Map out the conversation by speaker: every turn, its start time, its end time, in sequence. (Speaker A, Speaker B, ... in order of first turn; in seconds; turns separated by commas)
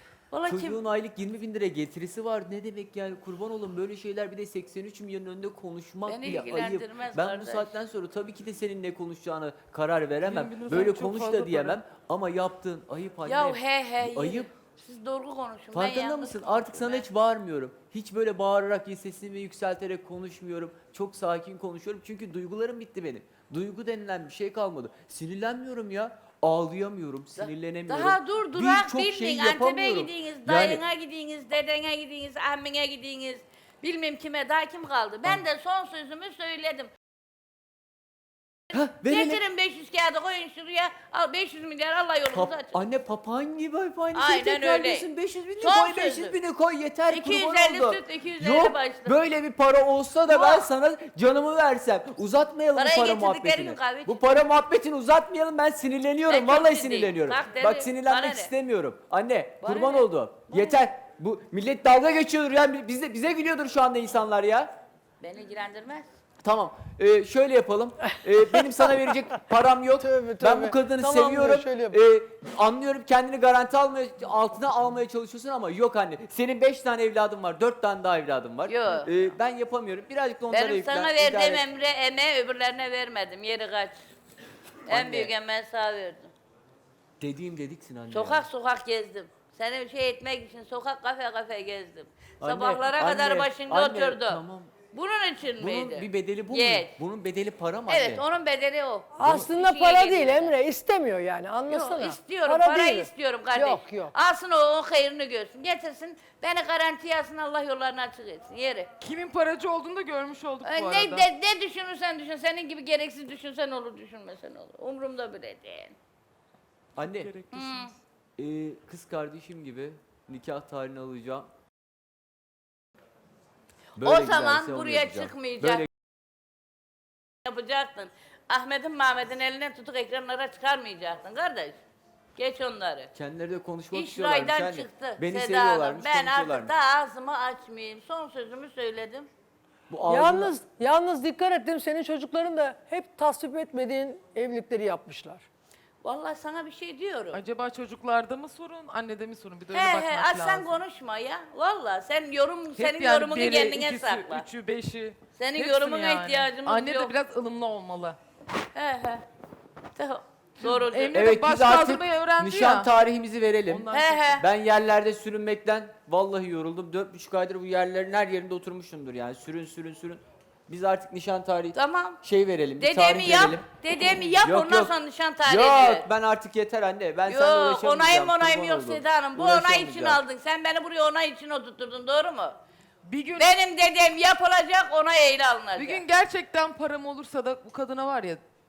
Speaker A: 0.3-0.8, Speaker B: 0.4-14.5, Speaker A: 6.0-7.7, Speaker C: 10.2-11.8, Speaker A: 13.2-17.1, Speaker B: 15.7-30.8, Speaker A: 27.4-36.9, Speaker B: 38.7-39.4, Speaker A: 38.7-42.8, Speaker B: 42.3-64.7, Speaker A: 44.1-46.4, Speaker A: 47.1-49.3, Speaker A: 50.3-50.7, Speaker A: 52.7-54.2, Speaker A: 56.3-58.5, Speaker A: 59.6-60.8, Speaker A: 65.2-66.1, Speaker B: 66.4-81.6, Speaker D: 70.0-72.0, Speaker A: 78.7-79.1, Speaker A: 80.5-84.0, Speaker A: 84.9-86.3, Speaker B: 84.9-85.3, Speaker B: 87.2-88.5, Speaker A: 88.1-94.4, Speaker B: 92.4-94.7, Speaker A: 94.9-96.9, Speaker B: 95.6-98.2, Speaker A: 97.9-100.5, Speaker D: 99.2-104.1, Speaker B: 99.2-99.5, Speaker A: 101.7-108.9, Speaker C: 109.0-111.3, Speaker A: 110.6-116.0, Speaker B: 117.0-117.3, Speaker C: 117.0-117.8, Speaker A: 117.5-117.9, Speaker B: 118.4-121.5, Speaker B: 124.0-125.9, Speaker A: 124.0-125.8, Speaker A: 127.4-131.8, Speaker A: 132.3-133.1, Speaker B: 133.1-136.7, Speaker A: 133.9-139.3, Speaker B: 139.9-140.5, Speaker D: 140.0-145.4, Speaker A: 146.0-147.4, Speaker C: 147.3-150.8, Speaker A: 149.7-154.4, Speaker C: 152.7-158.2, Speaker A: 155.3-157.1, Speaker A: 158.7-159.2, Speaker A: 159.9-161.3, Speaker C: 160.6-162.9, Speaker B: 161.1-173.6, Speaker C: 163.7-164.4, Speaker A: 163.9-164.4, Speaker A: 171.7-172.2, Speaker A: 172.8-176.1, Speaker B: 174.4-174.9, Speaker B: 175.4-180.2, Speaker A: 177.3-182.6, Speaker C: 183.0-183.7, Speaker A: 183.4-186.0, Speaker C: 185.8-188.4